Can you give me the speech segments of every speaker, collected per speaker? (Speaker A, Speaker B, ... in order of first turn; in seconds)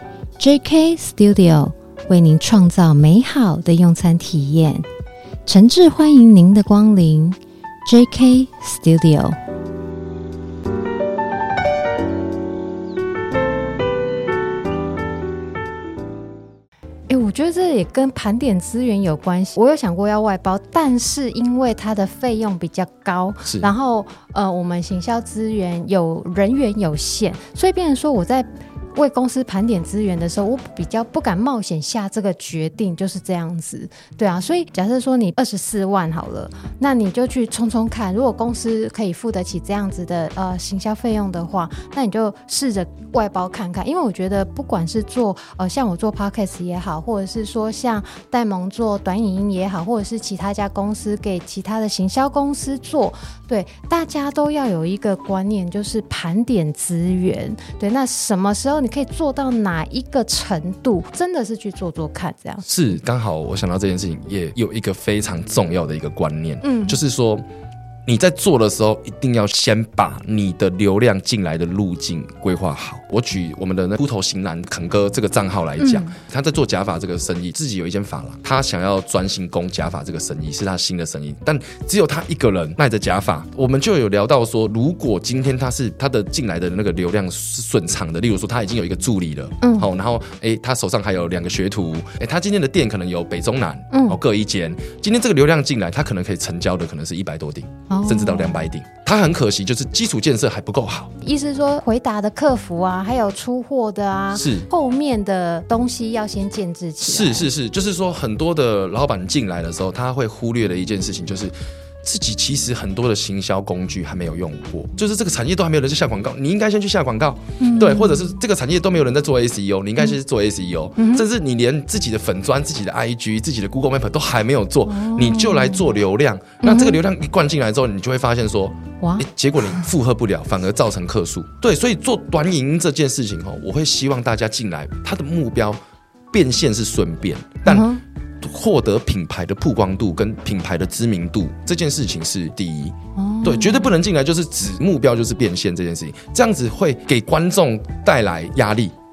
Speaker A: 0.4-4.9, 5.5-9.4, 17.1-62.6, 66.6-67.0, 75.8-76.1, 89.6-89.9, 93.9-94.2, 97.9-98.7, 101.2-107.5, 117.6-118.3, 121.0-121.2, 124.9-125.9, 126.6-127.0, 129.0-129.8, 137.6-138.0, 143.2-143.9
Speaker B: 62.6-67.5, 68.1-101.1, 104.3-104.7, 107.0-135.8, 136.3-137.9, 138.4-148.9